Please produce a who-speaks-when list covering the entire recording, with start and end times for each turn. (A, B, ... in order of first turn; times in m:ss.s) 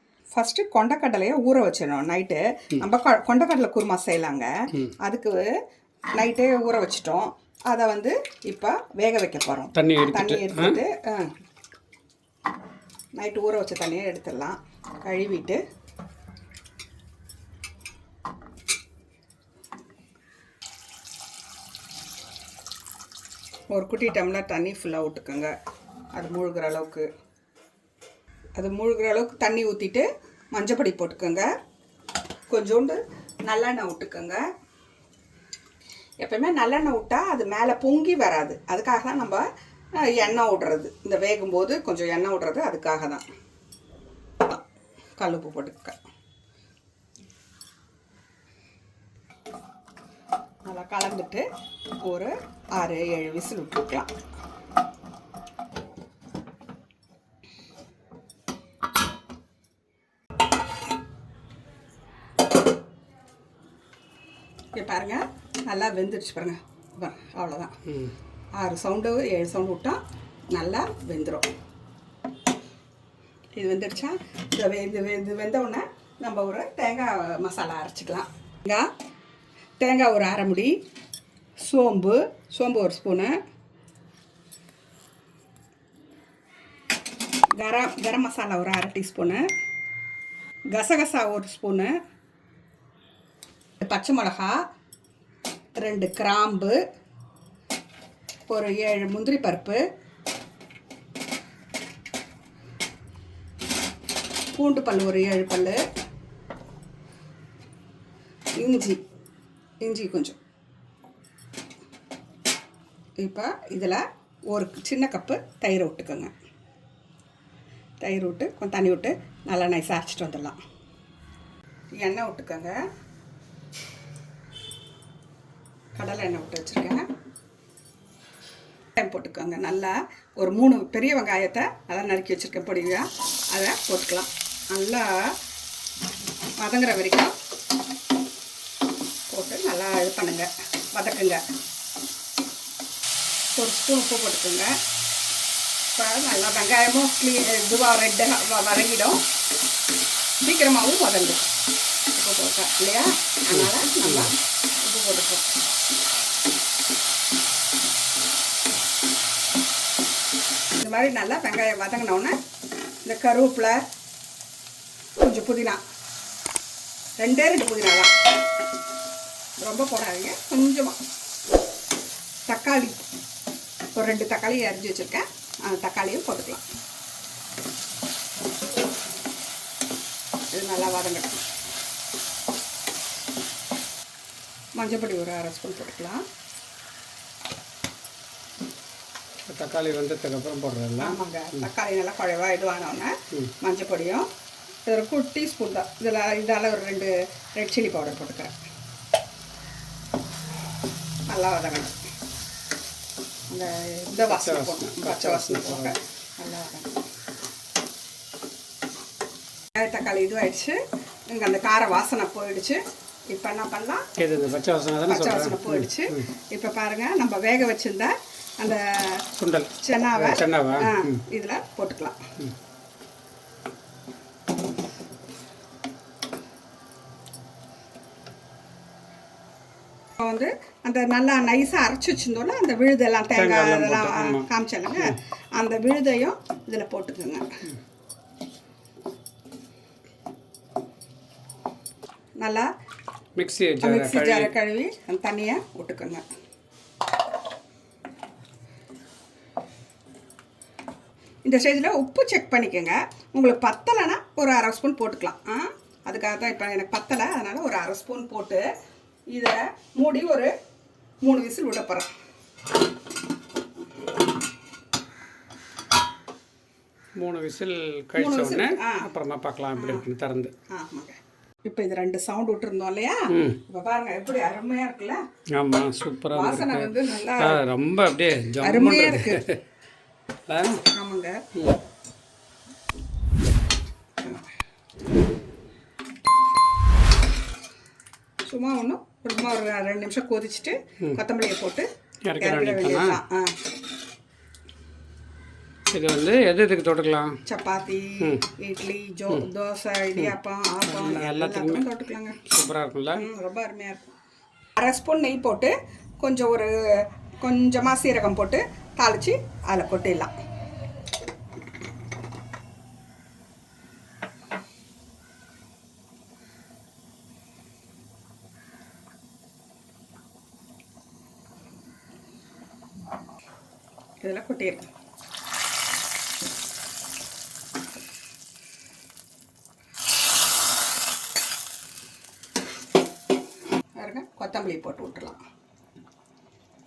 0:00.3-0:05.5 A
0:06.2-0:11.3 A
0:09.7-0:10.8 B
0:13.2-0:15.6 A
0:23.7-0:25.5 A
0:26.1-0:27.1 A
0:28.6-0:31.5 A
0:32.5-0:34.4 A
0:36.2-0:39.4 A
0:40.0-0:43.2 A
0:45.2-0:46.0 A
0:50.6-0:51.4 A
0:52.0-0:54.1 A
1:04.7-1:07.8 A
1:08.5-1:10.0 A
1:10.5-1:11.5 A
1:13.6-1:18.9 A
1:19.8-1:20.8 A
1:21.6-1:23.3 A
1:27.5-1:29.4 A
1:30.7-1:31.9 A
1:33.8-1:34.6 A
1:35.8-1:36.8 A
1:38.5-1:39.8 A
1:44.5-1:45.8 A
1:48.6-1:49.0 A
1:49.8-1:50.4 A
1:53.2-1:56.3 A
1:58.0-2:00.6 A
2:02.0-2:02.8 A
2:05.9-2:07.0 A
2:09.0-2:15.3 A
2:16.6-2:17.3 A
2:19.3-2:21.4 A
2:23.6-2:24.7 A
2:26.0-2:29.2 A
2:30.4-2:31.5 A
2:32.1-2:35.4 A
2:33.5-2:34.3 B
2:40.8-2:42.3 A
2:43.0-2:43.8 A
2:45.2-2:45.8 A
2:47.2-2:48.1 A
2:49.6-2:51.0 A
2:52.5-2:53.0 A
2:53.9-2:56.6 A
3:00.5-3:01.4 A
3:04.8-3:06.2 A
3:09.5-3:11.6 B
3:11.0-3:14.2 A
3:14.8-3:18.5 A
3:21.3-3:21.9 A
3:23.5-3:26.9 A
3:24.3-3:25.9 B
3:29.7-3:30.8 A
3:31.3-3:32.8 A
3:33.3-3:34.0 A
3:34.2-3:36.2 B
3:35.1-3:39.2 A
3:39.4-3:41.2 B
3:39.8-3:42.2 A
3:50.2-3:57.4 A
3:53.3-3:55.1 B
4:02.4-4:02.7 A
4:03.4-4:04.5 B
4:03.8-4:06.2 A
4:11.4-4:18.6 A
4:19.3-4:20.5 A
4:21.2-4:22.1 A
4:27.2-4:30.5 B
4:28.2-4:29.1 A
4:29.8-4:30.1 A
4:30.7-4:35.2 A
4:33.3-4:33.6 B
4:35.6-4:39.6 B
4:36.3-4:37.6 A
4:38.6-4:39.4 A
4:40.5-4:40.8 B
4:40.8-4:41.4 A
4:48.4-4:51.9 A
4:52.2-4:53.2 B
4:52.4-4:53.5 A
4:55.9-4:57.4 B
4:57.4-5:02.4 A
5:00.8-5:01.8 B
5:02.4-5:03.2 B
5:03.1-5:04.1 A
5:04.8-5:10.3 A
5:24.2-5:24.9 A
5:34.0-5:35.4 A